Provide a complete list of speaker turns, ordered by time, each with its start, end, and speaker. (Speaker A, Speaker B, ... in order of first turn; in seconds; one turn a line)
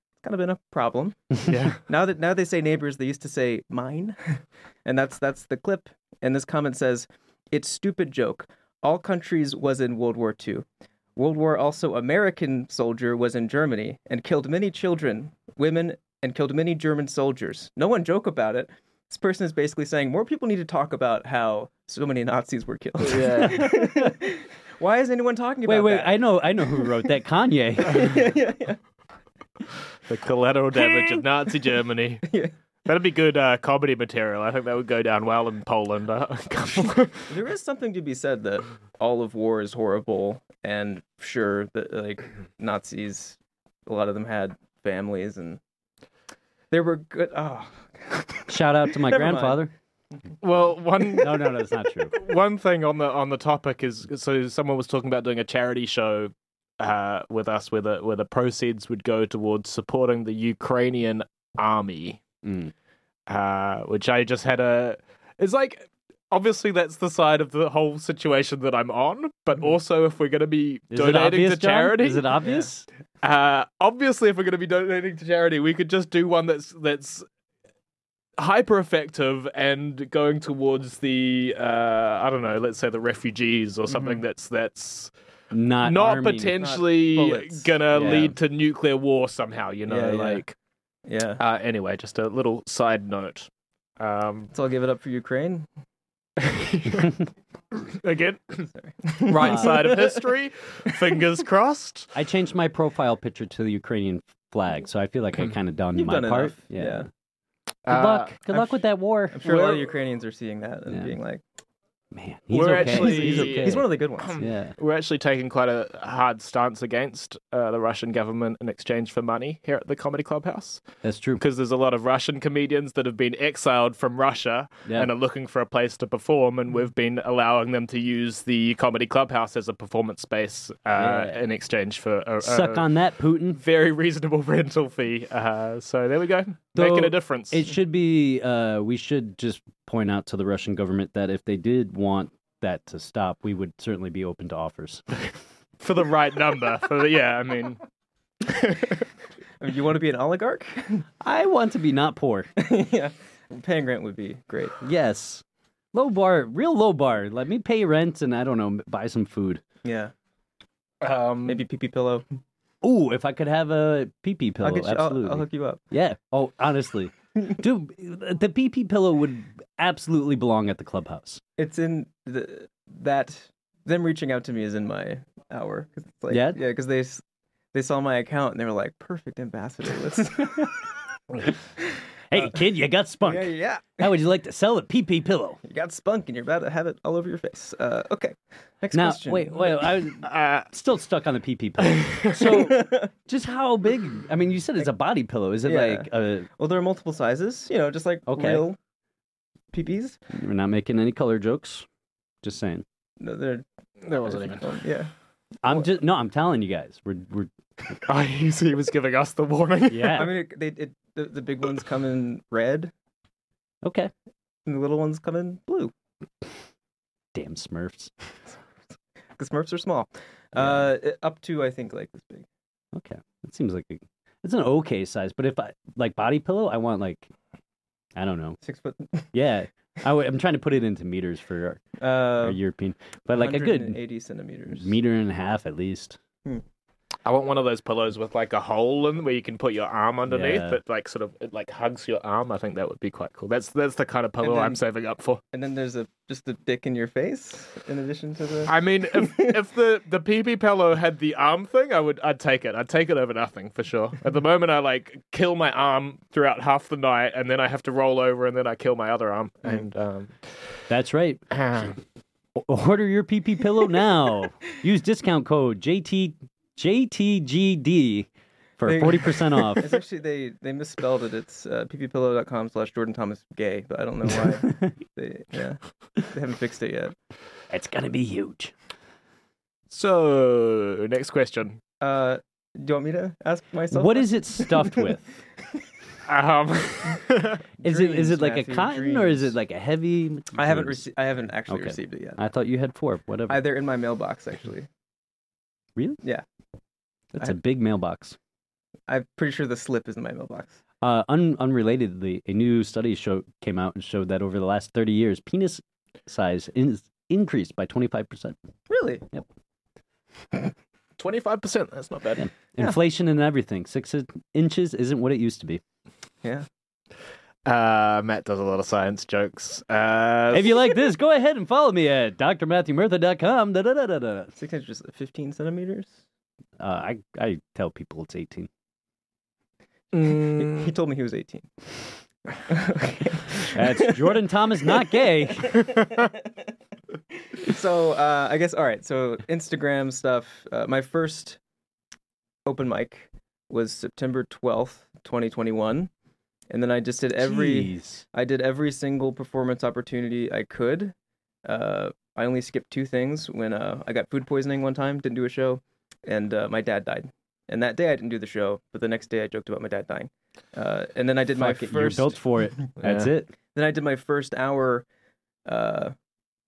Speaker A: 0.2-27.0
Speaker B: 1.4-1.8
Speaker B: 23.0-23.7
Speaker C: 23.4-24.1
Speaker C: 25.6-28.2
Speaker A: 27.8-28.8
Speaker B: 30.1-32.3
Speaker A: 30.8-31.2
Speaker A: 32.2-32.5
Speaker B: 32.9-37.3
Speaker A: 37.3-45.6
Speaker A: 46.7-49.6
Speaker C: 48.5-49.7
Speaker B: 50.4-62.2
Speaker C: 51.2-52.1
Speaker C: 62.4-62.7
Speaker B: 63.3-72.4
Speaker C: 70.9-72.9
Speaker B: 73.2-77.2
Speaker B: 78.4-85.1
Speaker A: 83.9-84.2
Speaker C: 85.5-86.6
Speaker B: 85.8-90.5
Speaker A: 86.6-87.8
Speaker C: 87.9-88.4
Speaker A: 89.9-90.4
Speaker A: 91.1-91.4
Speaker B: 91.4-94.5
Speaker A: 94.5-95.7
Speaker B: 96.4-98.7
Speaker A: 98.8-100.2
Speaker B: 99.2-102.1
Speaker C: 99.4-99.7
Speaker A: 100.9-101.2
Speaker C: 102.1-107.1
Speaker A: 105.9-107.1
Speaker B: 107.9-108.3
Speaker C: 107.9-109.8
Speaker A: 108.5-111.4
Speaker C: 112.1-113.8
Speaker B: 112.5-120.8
Speaker A: 112.6-114.4
Speaker C: 114.4-114.7
Speaker C: 121.0-121.4
Speaker B: 121.4-132.9
Speaker C: 130.9-131.4
Speaker C: 132.4-133.6
Speaker B: 133.6-137.7
Speaker C: 136.7-145.1
Speaker B: 145.8-147.8
Speaker B: 148.4-149.1
Speaker A: 149.6-151.1
Speaker C: 151.2-152.5
Speaker A: 152.6-154.8
Speaker C: 154.8-159.6
Speaker A: 159.8-160.1
Speaker B: 161.0-161.6
Speaker A: 161.4-162.2
Speaker C: 162.8-171.4
Speaker A: 164.6-165.8
Speaker A: 171.6-177.2
Speaker C: 176.3-176.6
Speaker A: 177.7-180.9
Speaker C: 182.3-185.6
Speaker A: 183.2-184.1
Speaker A: 185.6-189.9
Speaker C: 188.9-196.5
Speaker B: 190.2-190.7
Speaker B: 191.9-192.4
Speaker A: 192.4-193.1
Speaker A: 195.6-198.8
Speaker C: 198.3-198.6
Speaker A: 199.7-200.2
Speaker C: 200.3-201.9
Speaker C: 202.4-202.8
Speaker A: 203.2-203.7
Speaker B: 204.0-204.7
Speaker A: 204.2-205.1
Speaker C: 205.6-207.5
Speaker B: 208.1-210.3
Speaker C: 209.9-210.3
Speaker A: 210.1-212.9
Speaker C: 213.8-214.1
Speaker A: 214.7-215.9
Speaker C: 217.3-218.1
Speaker A: 219.4-222.5
Speaker C: 220.6-220.8
Speaker C: 222.9-227.3
Speaker C: 228.2-228.6
Speaker A: 228.6-229.3
Speaker C: 229.3-234.0
Speaker A: 232.0-232.6
Speaker A: 233.3-234.9
Speaker C: 234.7-236.2
Speaker B: 237.2-245.4
Speaker C: 240.3-240.8
Speaker A: 244.4-244.8
Speaker A: 245.5-249.6
Speaker B: 248.7-260.4
Speaker C: 260.9-261.9
Speaker B: 261.5-261.9
Speaker C: 262.6-269.9
Speaker A: 268.8-277.1
Speaker C: 277.7-278.7
Speaker B: 279.9-281.8
Speaker A: 282.0-285.1
Speaker C: 283.9-285.4
Speaker B: 286.3-287.6
Speaker A: 287.8-289.5
Speaker C: 287.8-291.1
Speaker A: 290.6-292.4
Speaker C: 291.7-293.6
Speaker A: 293.5-294.9
Speaker C: 297.4-298.4
Speaker A: 299.1-300.8
Speaker C: 301.0-308.6
Speaker A: 308.9-309.2
Speaker B: 311.2-312.4
Speaker C: 312.4-315.8
Speaker B: 317.6-320.8
Speaker C: 320.5-324.5
Speaker A: 324.6-326.2
Speaker C: 326.8-328.7
Speaker B: 330.1-330.9
Speaker A: 330.2-331.7
Speaker A: 332.6-336.5
Speaker C: 333.6-335.9
Speaker A: 337.6-341.6
Speaker A: 342.6-346.1
Speaker A: 346.7-362.8
Speaker C: 347.4-348.2
Speaker C: 361.6-363.5
Speaker B: 363.0-363.3
Speaker A: 363.7-365.1
Speaker A: 365.6-366.1